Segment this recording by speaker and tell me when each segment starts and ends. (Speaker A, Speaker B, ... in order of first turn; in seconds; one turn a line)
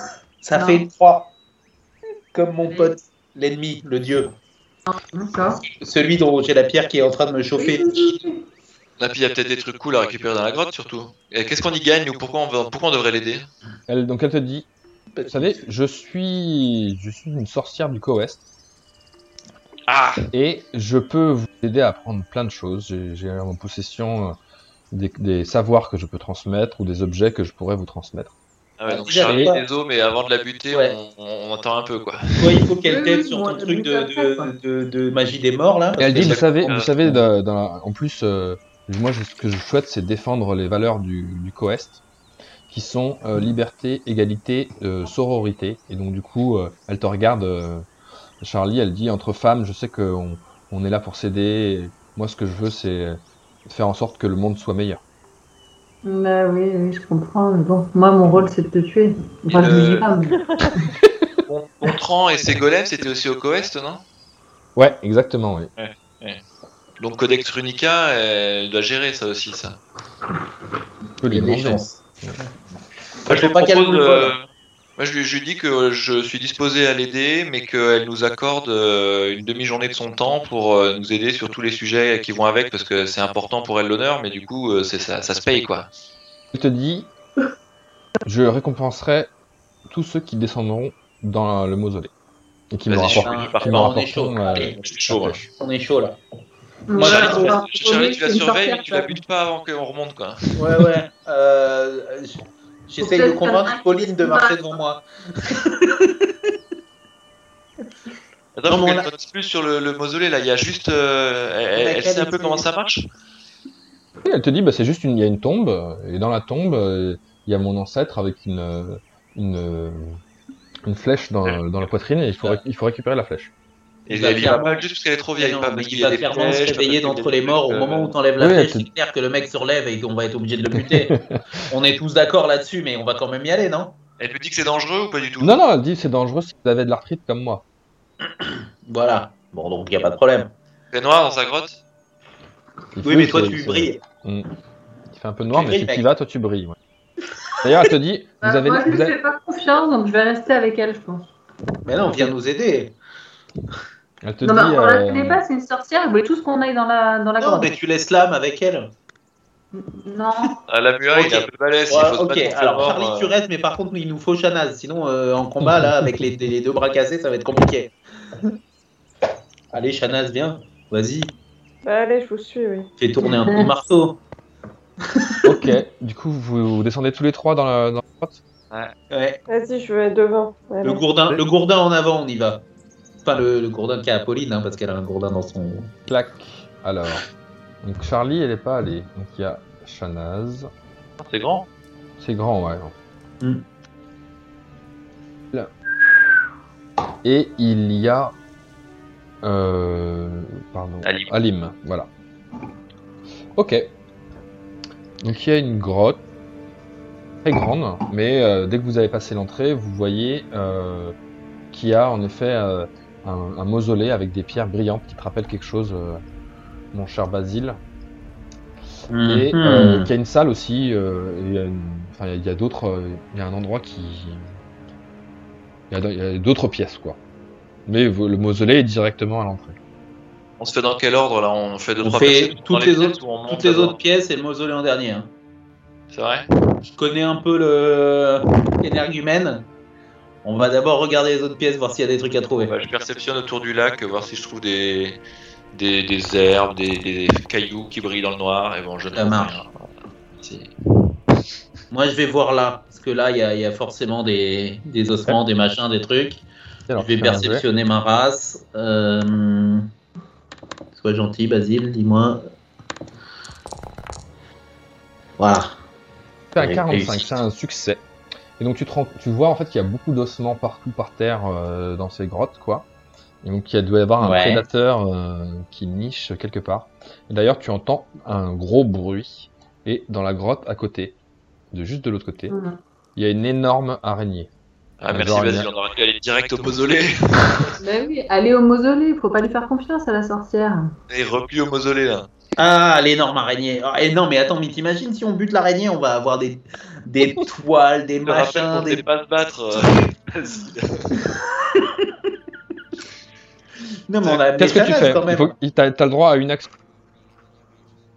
Speaker A: 0.4-1.3
Speaker B: 0.5-0.8
Speaker A: 2.3-4.3
Speaker B: 2.7-2.9
Speaker B: 4.8-5.6
Speaker A: 5.8-8.2
Speaker B: 7.6-8.4
Speaker C: 9.0-13.5
Speaker D: 13.9-14.7
Speaker A: 15.1-15.6
Speaker D: 15.3-18.4
Speaker C: 19.9-20.3
Speaker D: 20.3-24.4
Speaker D: 24.9-28.3
Speaker C: 28.8-32.6
Speaker A: 28.9-29.6
Speaker D: 29.2-29.5
Speaker A: 32.4-37.2
Speaker B: 32.8-34.5
Speaker D: 36.0-42.0
Speaker C: 36.1-36.9
Speaker D: 42.7-47.9
Speaker D: 48.4-55.0
Speaker B: 56.0-60.4
Speaker C: 59.5-60.1
Speaker C: 61.5-64.0
Speaker D: 64.8-65.7
Speaker C: 65.8-66.4
Speaker C: 67.0-69.8
Speaker D: 71.2-72.4
Speaker A: 71.3-72.5
Speaker A: 73.3-74.3
Speaker C: 73.3-74.4
Speaker C: 75.0-85.9
Speaker D: 86.5-87.1
Speaker D: 88.2-89.3
Speaker D: 89.9-92.1
Speaker D: 92.7-95.5
Speaker C: 92.9-93.9
Speaker A: 93.0-94.9
Speaker C: 94.8-95.4
Speaker A: 95.5-96.2
Speaker B: 96.9-99.2
Speaker A: 96.9-97.5
Speaker C: 97.0-100.5
Speaker A: 100.5-106.3
Speaker B: 103.0-104.8
Speaker C: 108.5-113.0
Speaker A: 108.7-109.1
Speaker A: 111.8-112.6
Speaker D: 114.2-120.2
Speaker D: 120.8-123.5
Speaker C: 124.1-128.1
Speaker A: 124.1-131.1
Speaker D: 128.4-128.9
Speaker D: 130.7-131.4
Speaker A: 131.7-133.9
Speaker C: 134.2-135.6
Speaker D: 135.4-137.6
Speaker A: 138.4-140.5
Speaker C: 140.9-141.8
Speaker D: 142.9-144.5
Speaker A: 143.0-144.0
Speaker D: 145.1-146.8
Speaker A: 145.5-146.0
Speaker D: 147.6-149.2
Speaker B: 148.4-151.3
Speaker A: 151.8-152.9
Speaker D: 154.2-155.4
Speaker B: 154.4-157.7
Speaker A: 157.4-158.9
Speaker B: 159.7-160.6
Speaker C: 160.7-163.3
Speaker A: 161.1-168.5
Speaker D: 165.6-166.2
Speaker A: 169.7-171.3
Speaker E: 171.8-172.9
Speaker A: 173.0-174.2
Speaker B: 173.2-173.7
Speaker D: 175.4-178.4
Speaker A: 179.1-179.4
Speaker E: 179.5-181.0
Speaker A: 180.8-182.6
Speaker A: 183.2-185.9
Speaker D: 186.1-187.2
Speaker D: 187.8-190.7
Speaker C: 191.2-191.7
Speaker D: 192.2-192.9
Speaker D: 197.2-198.3
Speaker D: 199.4-202.1
Speaker C: 201.0-201.3
Speaker D: 203.6-203.9
Speaker D: 205.2-206.2
Speaker D: 207.4-211.1
Speaker D: 211.7-216.2
Speaker D: 216.9-217.8
Speaker A: 219.1-220.1
Speaker D: 219.2-224.5
Speaker D: 225.9-227.2
Speaker D: 227.8-229.8
Speaker C: 230.6-233.9
Speaker A: 232.0-235.3
Speaker C: 236.1-236.5
Speaker A: 236.8-239.6
Speaker A: 240.4-242.7
Speaker C: 242.7-245.2
Speaker C: 245.7-250.7
Speaker A: 249.1-249.5
Speaker A: 251.9-256.4
Speaker D: 256.9-257.6
Speaker A: 256.9-259.9
Speaker A: 260.9-262.4
Speaker A: 265.4-265.7
Speaker D: 266.5-268.0
Speaker A: 266.6-267.4
Speaker D: 268.6-272.9
Speaker D: 273.4-281.2
Speaker A: 274.2-274.6
Speaker D: 281.7-282.6
Speaker B: 282.5-282.8
Speaker D: 283.1-284.5
Speaker C: 285.0-287.8
Speaker D: 285.1-285.7
Speaker B: 287.8-290.9
Speaker C: 291.1-292.3
Speaker A: 292.6-299.0
Speaker C: 298.2-301.2
Speaker A: 301.7-302.0
Speaker A: 304.1-305.5
Speaker D: 304.2-306.7